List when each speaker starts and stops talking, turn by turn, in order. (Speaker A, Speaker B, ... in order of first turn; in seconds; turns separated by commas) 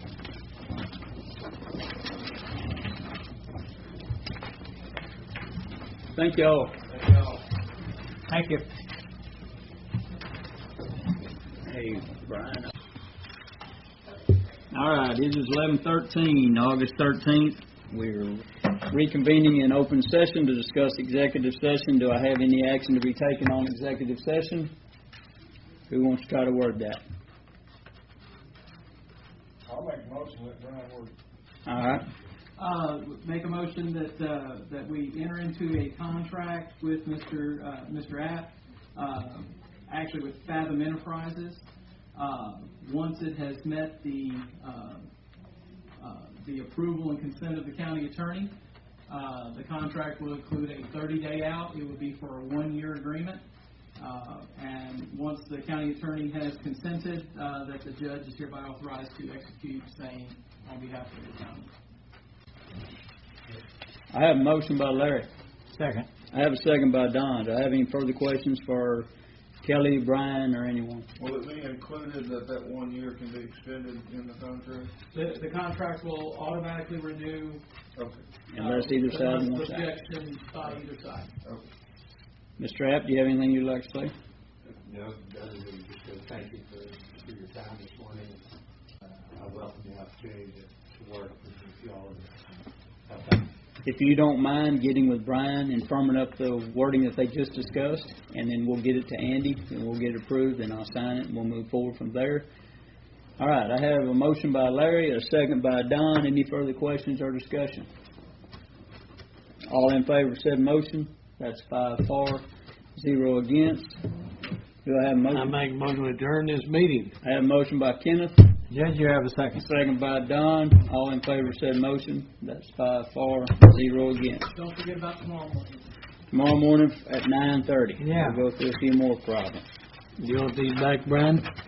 Speaker A: 6.1-6.7, Speaker B: 8.3-8.6, Speaker A: 11.6-12.7, Speaker A: 14.7-24.7, Speaker A: 25.9-27.0, Speaker C: 29.7-31.1, Speaker A: 31.6-32.0, Speaker D: 32.6-41.6, Speaker D: 42.1-45.1, Speaker D: 46.0-48.5, Speaker D: 49.1-53.4, Speaker D: 54.0-61.7, Speaker A: 64.1-65.3, Speaker B: 65.7-66.1, Speaker A: 66.3-69.1, Speaker A: 69.6-71.1, Speaker C: 71.2-74.9, Speaker D: 75.1-77.6, Speaker C: 77.9-78.2, Speaker A: 78.5-79.9, Speaker D: 78.5-81.3, Speaker A: 82.6-84.1, Speaker E: 84.7-88.4, Speaker E: 89.1-93.5, Speaker A: 93.8-102.4, Speaker A: 103.4-107.9, Speaker A: 109.7-112.4, Speaker A: 113.0-113.9, Speaker A: 114.8-115.5, Speaker B: 115.3-117.2, Speaker A: 117.2-118.4, Speaker B: 118.7-119.6, Speaker A: 119.5-124.5, Speaker D: 124.5-125.9, Speaker A: 126.3-129.6, Speaker B: 128.0-128.4, Speaker B: 130.2-131.4